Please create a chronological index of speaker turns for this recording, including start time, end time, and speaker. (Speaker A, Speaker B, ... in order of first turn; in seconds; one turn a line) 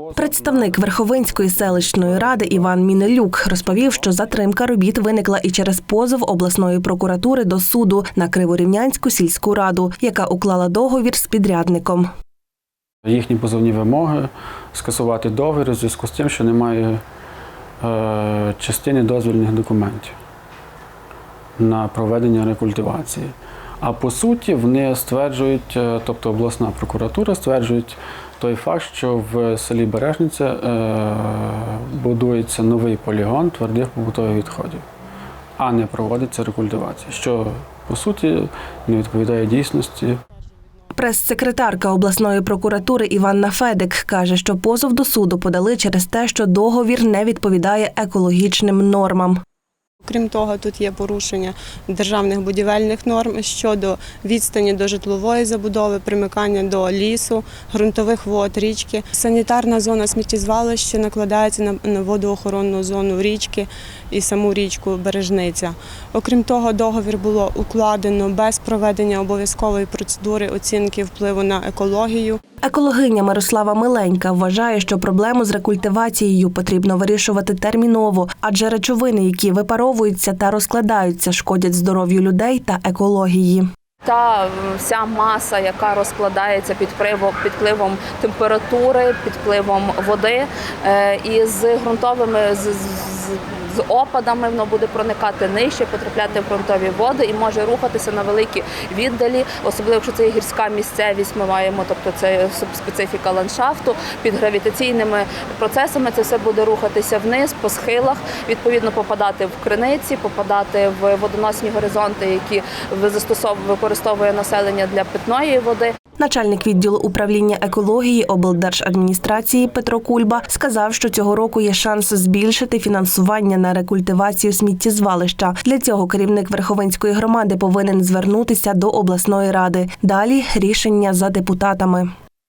Speaker A: 0.1-12.1
Speaker B: 13.1-17.0
Speaker B: 17.8-20.1
Speaker B: 21.6-34.9
Speaker B: 35.6-40.2
Speaker A: 40.9-49.4
Speaker C: 50.0-72.4
Speaker A: 72.6-83.7
Speaker D: 84.0-115.9
Speaker A: 116.2-132.1